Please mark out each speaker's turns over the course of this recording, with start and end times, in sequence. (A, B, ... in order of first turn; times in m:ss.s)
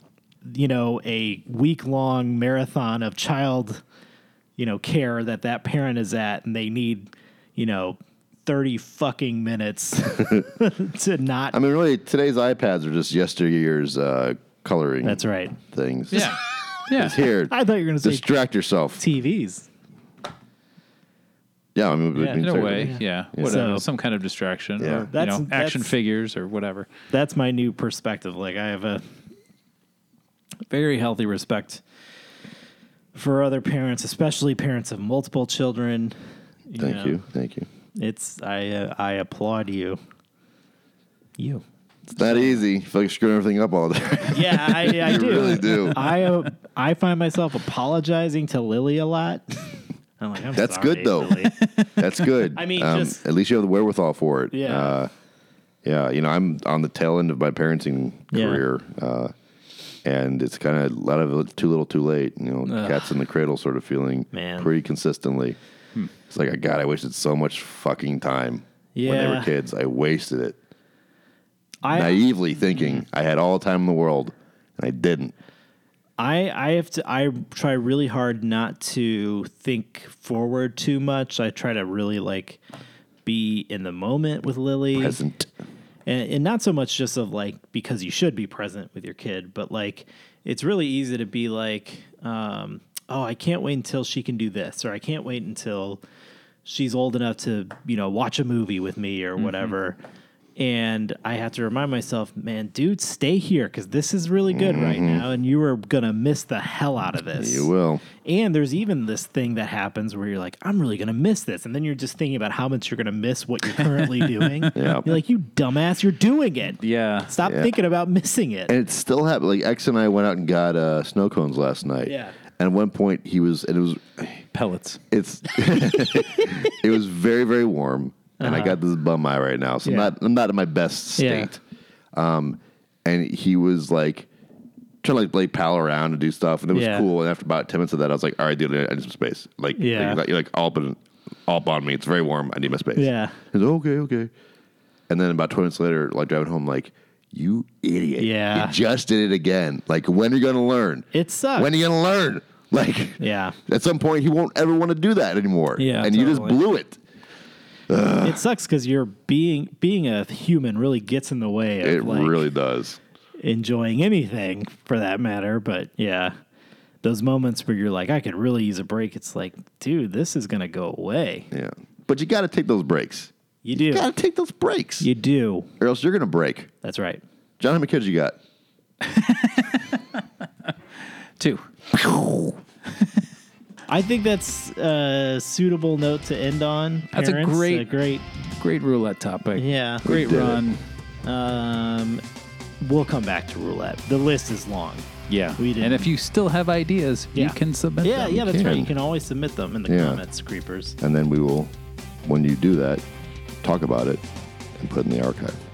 0:00.4-0:03.8 A
0:04.6-0:11.6 A
0:11.5-0:16.4 B
0:15.0-0:15.6 A
0:16.1-0:17.2 C
0:16.9-0:19.0 B
0:17.5-0:18.3 A
0:19.0-0:19.7 A
0:21.8-0:23.7 B
0:22.2-0:23.9 A
0:22.4-0:26.9 C
0:24.8-0:25.1 B
0:25.1-0:26.0 A
0:27.1-0:29.0 A
0:30.7-0:31.8 A
0:33.1-0:36.2 A
0:36.7-0:37.2 A
0:36.8-0:37.7 B
0:38.0-0:40.0 A
0:41.4-0:41.6 A
0:42.1-0:46.0 B
0:42.2-0:42.6 A
0:44.3-0:51.6 A
0:50.5-0:55.1 B
0:52.5-0:53.2 A
0:54.5-0:55.0 A
0:55.8-0:59.3 B
0:58.3-0:58.6 A
1:00.0-1:05.6 B
1:02.7-1:03.1 A
1:04.3-1:04.7 A
1:06.3-1:10.6 B
1:09.0-1:09.5 A
1:11.8-1:12.3 A
1:11.9-1:15.4 B
1:16.2-1:22.6 A
1:23.2-1:25.2 A
1:25.0-1:25.5 B
1:26.1-1:36.0 A
1:36.6-1:40.0 A
1:39.4-1:39.7 C
1:40.6-1:58.7 A
1:44.5-1:45.3 B
1:47.4-1:48.0 B
1:54.0-1:54.7 C
1:54.7-1:55.1 B
1:56.8-1:57.3 C
1:57.4-1:57.7 B
1:58.7-2:04.4 B
2:02.1-2:02.4 A
2:04.5-2:05.0 C
2:05.1-2:11.6 B
2:08.4-2:08.8 A
2:09.8-2:10.1 A
2:11.2-2:11.5 A
2:12.1-2:14.3 B
2:15.0-2:24.3 B
2:16.7-2:17.1 A
2:19.8-2:20.2 A
2:23.0-2:23.4 A
2:25.1-2:37.0 B
2:28.2-2:28.8 A
2:31.1-2:31.7 A
2:33.2-2:33.6 A
2:35.8-2:36.6 A
2:37.9-2:38.4 B
2:38.2-2:42.5 A
2:41.8-2:43.0 B
2:43.4-2:46.4 A
2:47.0-2:51.5 A
2:51.5-2:55.1 B
2:53.6-2:54.1 A
2:55.0-2:55.7 A
2:55.8-2:56.7 B
2:56.8-2:57.2 A
2:57.6-2:58.4 B
2:59.0-3:00.0 C
3:01.4-3:03.1 C
3:03.9-3:08.3 A
3:07.1-3:10.8 C
3:09.6-3:10.1 A
3:10.0-3:10.8 B
3:11.2-3:12.2 A
3:12.8-3:15.1 A
3:15.3-3:18.5 C
3:15.6-3:16.1 A
3:17.4-3:21.0 A
3:18.4-3:18.9 B
3:19.9-3:20.2 B
3:21.0-3:23.0 B
3:23.6-3:25.6 B